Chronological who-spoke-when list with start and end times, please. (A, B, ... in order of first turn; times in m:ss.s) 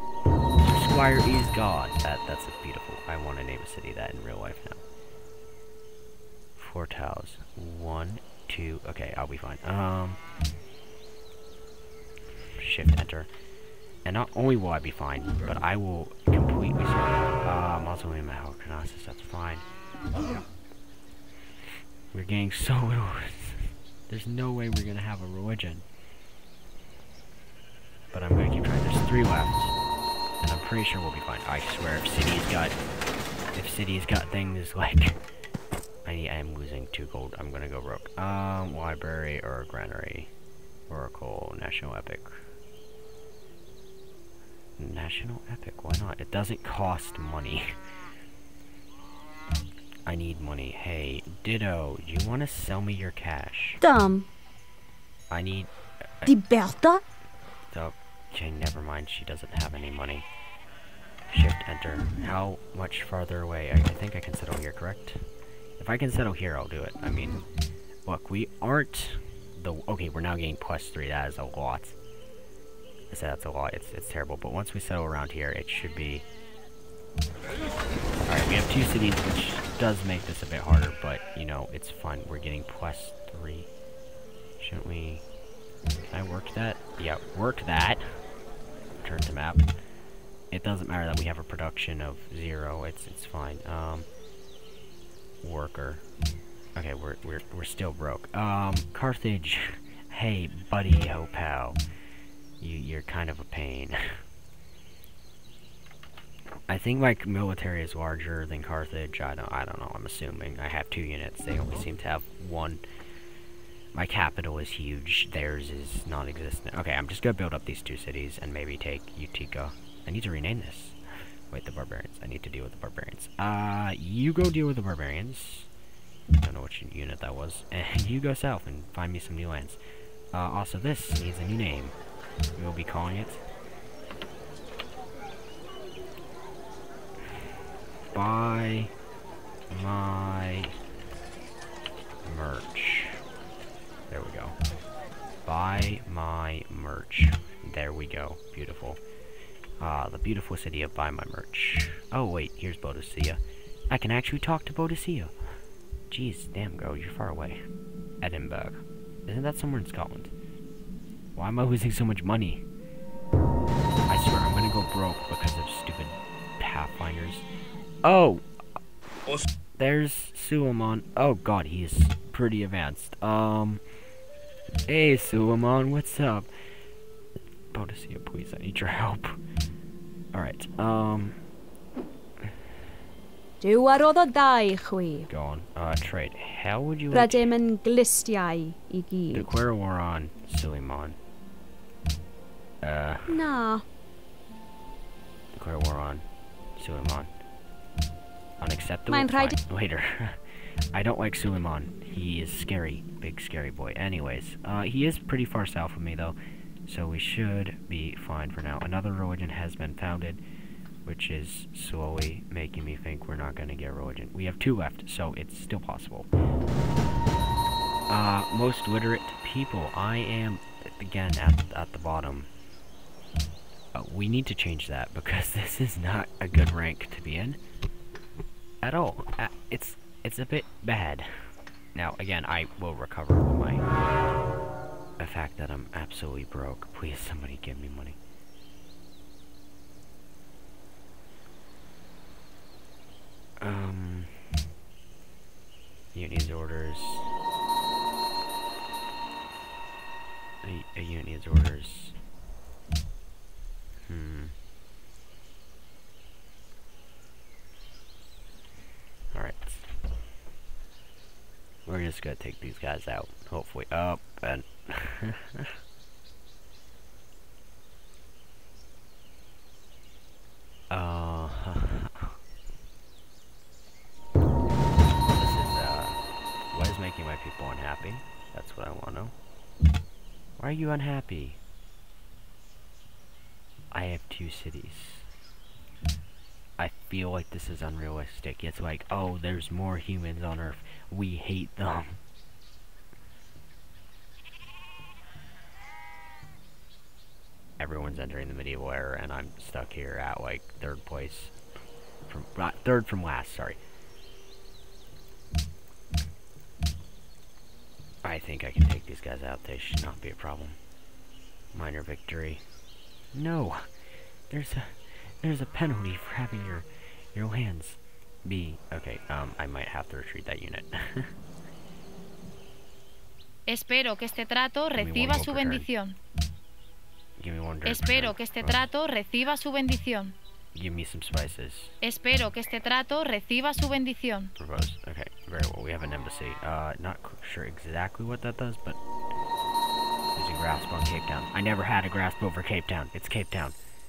0:00.6-0:04.8 A
0:06.6-0:10.2 A
0:12.6-0:13.3 A
0:14.0-0:19.6 A
0:22.1-0:25.8 A
0:28.1-0:29.7 A
0:30.4-0:32.8 A
0:33.5-0:35.2 A
0:36.0-0:40.3 A
0:40.9-0:42.4 A
0:44.8-0:47.8 A
0:50.0-0:53.8 A
0:53.8-0:54.3 B
0:55.3-0:55.7 A
0:56.2-0:57.0 B
0:57.7-1:00.3 A
1:01.3-1:05.2 A
1:05.8-1:07.4 A
1:08.0-1:12.0 A
1:13.1-1:16.2 A
1:18.2-1:23.7 A
1:24.6-1:25.2 A
1:26.0-1:28.2 A
1:29.0-1:29.6 A
1:30.5-1:34.1 A
1:35.4-1:36.0 A
1:36.8-1:41.8 A
1:42.6-1:44.2 A
1:46.7-1:52.8 A
1:53.9-2:01.0 A
2:01.5-2:05.7 A
2:06.4-2:09.8 A
2:10.3-2:12.0 A
2:12.6-2:13.4 A
2:18.1-2:18.9 A
2:19.7-2:20.7 A
2:22.2-2:23.2 A
2:24.1-2:24.6 A
2:25.4-2:29.0 A
2:29.8-2:35.3 A
2:36.1-2:37.6 A
2:38.2-2:40.3 A
2:41.3-2:42.6 A
2:44.1-2:47.4 A
2:48.0-2:48.4 A
2:49.8-2:53.8 A
2:54.9-2:56.5 A
2:57.7-2:59.4 A
3:00.3-3:01.4 A
3:03.6-3:05.3 B
3:05.3-3:07.5 A
3:07.1-3:09.5 B
3:09.3-3:11.2 A
3:12.8-3:13.4 A
3:13.3-3:13.8 B
3:15.5-3:16.2 A
3:16.8-3:17.3 A
3:18.6-3:20.4 A
3:19.1-3:19.6 B
3:20.9-3:30.4 A
3:31.0-3:36.3 A
3:38.1-3:42.5 A
3:43.9-3:47.6 A
3:48.8-3:53.8 A
3:55.2-3:58.2 A
4:03.6-4:04.5 A
4:06.1-4:07.3 A
4:10.6-4:12.1 A
4:14.0-4:14.5 A
4:19.3-4:19.9 A
4:21.8-4:25.7 A
4:30.9-4:32.3 A
4:35.2-4:36.2 A
4:36.7-4:39.3 A
4:40.6-4:41.6 A
4:43.9-4:45.3 A
4:46.8-4:52.2 A
4:57.8-5:01.5 A
5:02.3-5:03.8 A
5:08.2-5:10.8 A
5:11.7-5:12.6 A
5:13.3-5:13.9 A
5:14.5-5:21.3 A
5:23.7-5:26.2 C
5:24.9-5:25.9 A
5:27.4-5:28.9 A
5:27.8-5:30.4 C
5:30.7-5:31.9 A
5:32.0-5:34.5 C
5:34.6-5:39.0 A
5:40.4-5:43.8 A